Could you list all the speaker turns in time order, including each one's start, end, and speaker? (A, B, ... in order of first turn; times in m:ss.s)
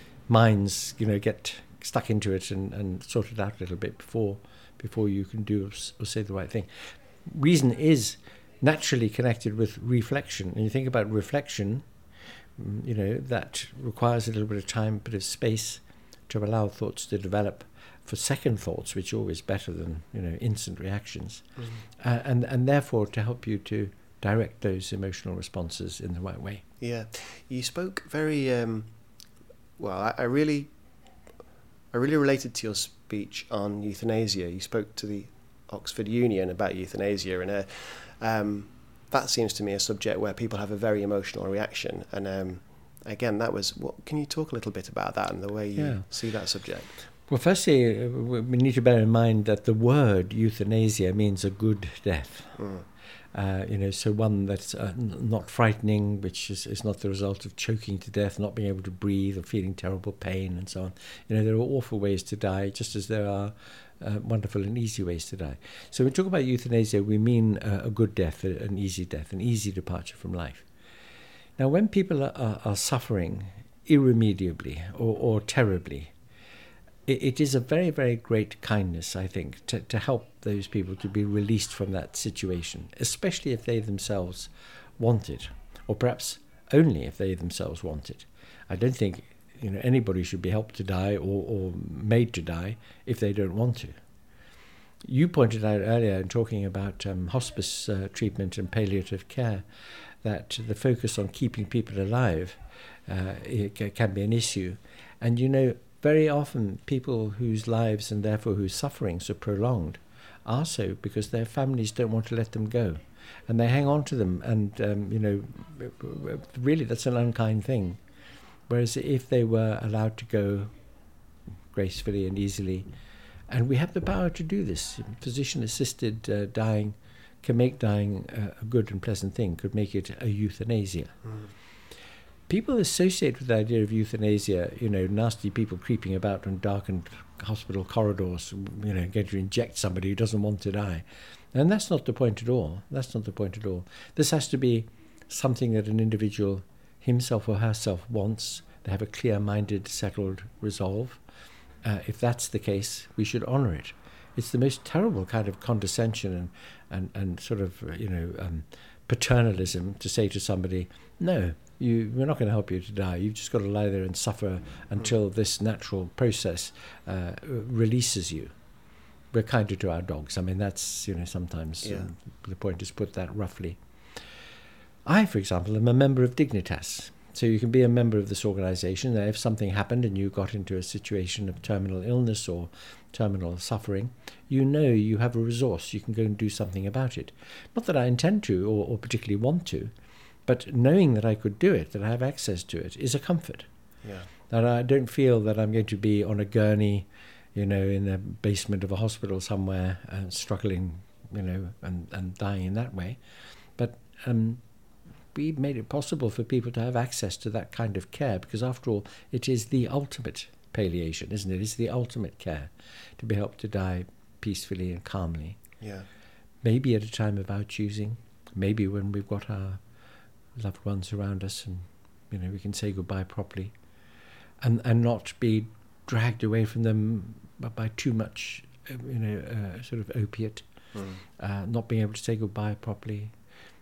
0:00.3-0:06.7 A
0:07.2-0:11.8 A
0:12.6-0:21.4 A
0:22.0-0:26.6 A
0:26.8-0:28.9 B
0:29.8-0:30.7 B
0:31.9-0:46.9 B
0:45.7-0:46.1 A
0:47.3-0:52.6 A
0:52.6-0:52.8 B
0:53.3-1:10.6 A
1:11.6-1:16.1 A
1:17.1-1:34.0 A
1:35.0-1:39.6 A
1:40.2-1:58.0 A
1:58.7-2:00.7 A
2:01.7-2:02.9 A
2:03.5-2:11.2 A
2:12.5-2:31.2 A
2:31.8-2:48.5 A
2:49.3-2:53.8 A
2:51.8-2:52.1 B
2:55.0-3:09.9 A
3:10.4-3:13.7 A
3:14.0-3:14.3 B
3:14.5-3:23.2 A
3:23.8-3:24.6 A
3:25.3-3:35.6 A
3:35.8-3:36.1 B
3:36.6-3:39.8 A
3:40.6-3:43.7 A
3:44.6-3:50.7 A
3:50.9-3:51.2 B
3:51.4-3:53.3 A